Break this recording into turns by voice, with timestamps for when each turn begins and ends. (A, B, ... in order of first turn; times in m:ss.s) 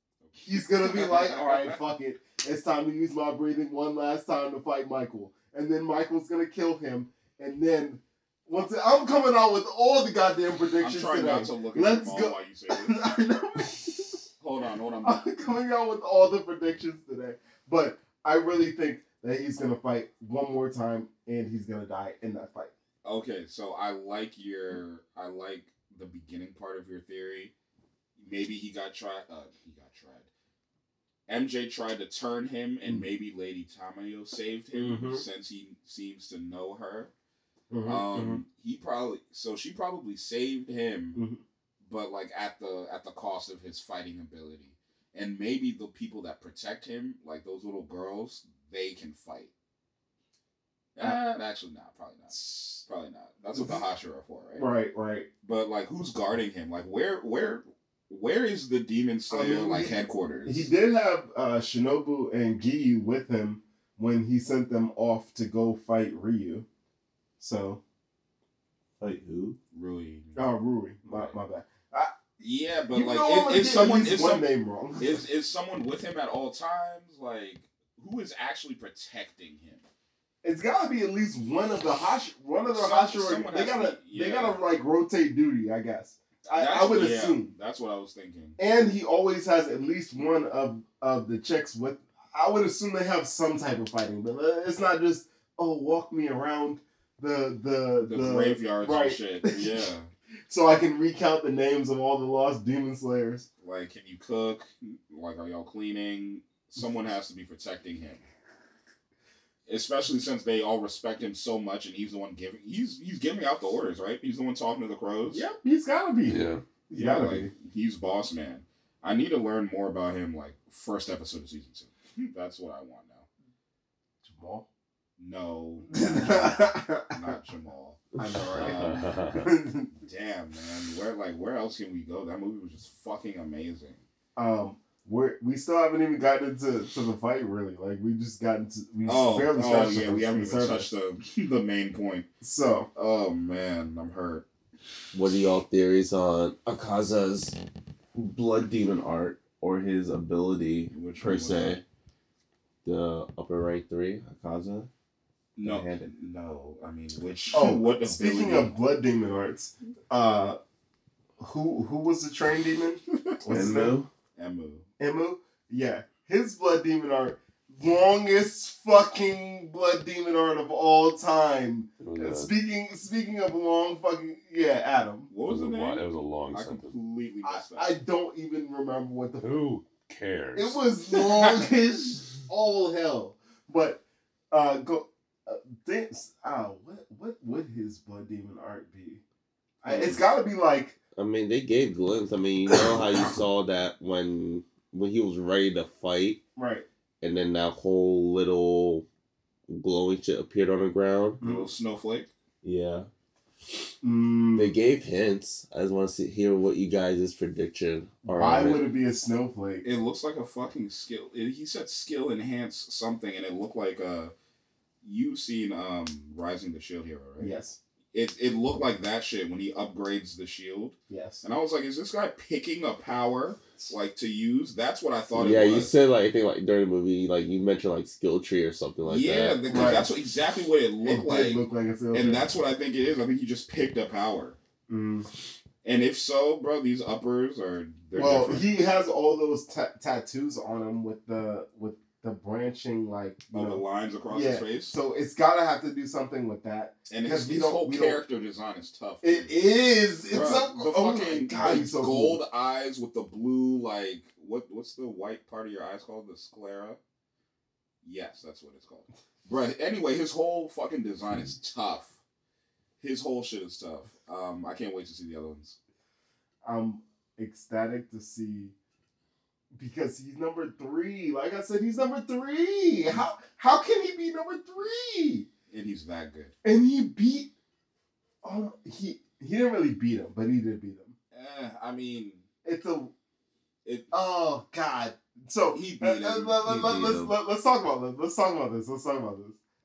0:00.2-0:01.8 A
0:00.4-0:14.2 B
0:10.8-0:13.0 A
0:14.4-0:15.2 A
0:15.0-0:22.7 B
0:23.0-0:27.5 A
0:28.2-0:30.3 A
0:31.3-0:37.1 A
0:34.8-0:35.2 B
0:37.7-0:38.4 B
0:37.8-0:41.2 A
0:41.2-0:41.4 B
0:41.8-0:49.5 A
0:51.0-0:54.7 A
0:54.6-0:55.3 B
0:55.4-1:00.7 A
0:59.3-1:06.7 B
1:07.4-1:07.8 B
1:09.0-1:09.6 C
1:09.7-1:10.4 A
1:10.4-1:12.2 B
1:11.1-1:11.4 A
1:12.4-1:14.5 A
1:12.9-1:15.2 B
1:15.0-1:19.8 A
1:20.4-1:27.5 B
1:22.7-1:24.6 A
1:26.5-1:28.6 A
1:28.6-1:39.8 B
1:38.0-1:40.1 A
1:40.5-1:43.5 B
1:43.6-1:48.2 A
1:49.7-1:55.4 A
1:55.3-1:57.5 B
1:56.3-1:56.6 D
1:56.9-2:03.3 A
2:04.2-2:04.7 B
2:05.2-2:09.1 A
2:05.9-2:07.3 B
2:08.2-2:09.9 B
2:08.5-2:09.5 D
2:10.0-2:14.0 A
2:14.4-2:20.9 B
2:19.1-2:22.3 A
2:22.4-2:22.9 B
2:23.0-2:24.4 A
2:25.1-2:27.6 C
2:28.1-2:31.8 C
2:30.9-2:31.8 A
2:32.8-2:34.9 C
2:35.6-2:38.8 A
2:35.6-2:36.1 C
2:37.5-2:40.6 B
2:41.4-2:44.0 B
2:43.5-2:44.1 C
2:44.4-2:44.8 A
2:45.0-2:55.3 B
2:52.0-2:52.5 D
2:55.3-2:57.9 A
2:55.5-2:56.9 D
2:57.4-2:59.5 B
2:59.4-3:00.8 D
3:00.6-3:09.2 B
3:01.3-3:01.6 A
3:09.8-3:11.0 B
3:11.2-3:16.4 C
3:16.6-3:16.9 B
3:17.2-3:19.1 C
3:19.7-3:21.4 C
3:21.4-3:21.7 B
3:21.4-3:22.3 A
3:22.6-3:23.1 C
3:24.0-3:24.8 B
3:24.6-3:28.8 C
3:28.2-3:29.8 B
3:29.8-3:34.3 A
3:35.0-3:37.5 A
3:37.4-3:37.8 B
3:38.1-3:45.9 A
3:41.1-3:41.4 B
3:45.4-3:49.8 C
3:49.0-3:54.6 A
3:49.7-3:50.1 B
3:51.0-3:52.5 B
3:54.9-3:55.3 B
3:55.8-3:58.7 A
3:58.2-4:08.2 B
4:03.5-4:05.0 A
4:07.1-4:09.5 A
4:09.2-4:12.4 B
4:10.3-4:17.0 A
4:18.0-4:22.2 A
4:23.0-4:25.8 A
4:26.6-4:28.7 B
4:29.7-4:35.5 B
4:35.7-4:36.5 A
4:36.6-4:37.5 B
4:38.4-4:41.1 B
4:41.3-4:42.5 A
4:42.6-4:43.1 B
4:44.1-4:49.6 B
4:45.7-4:46.6 A
4:46.6-4:47.4 C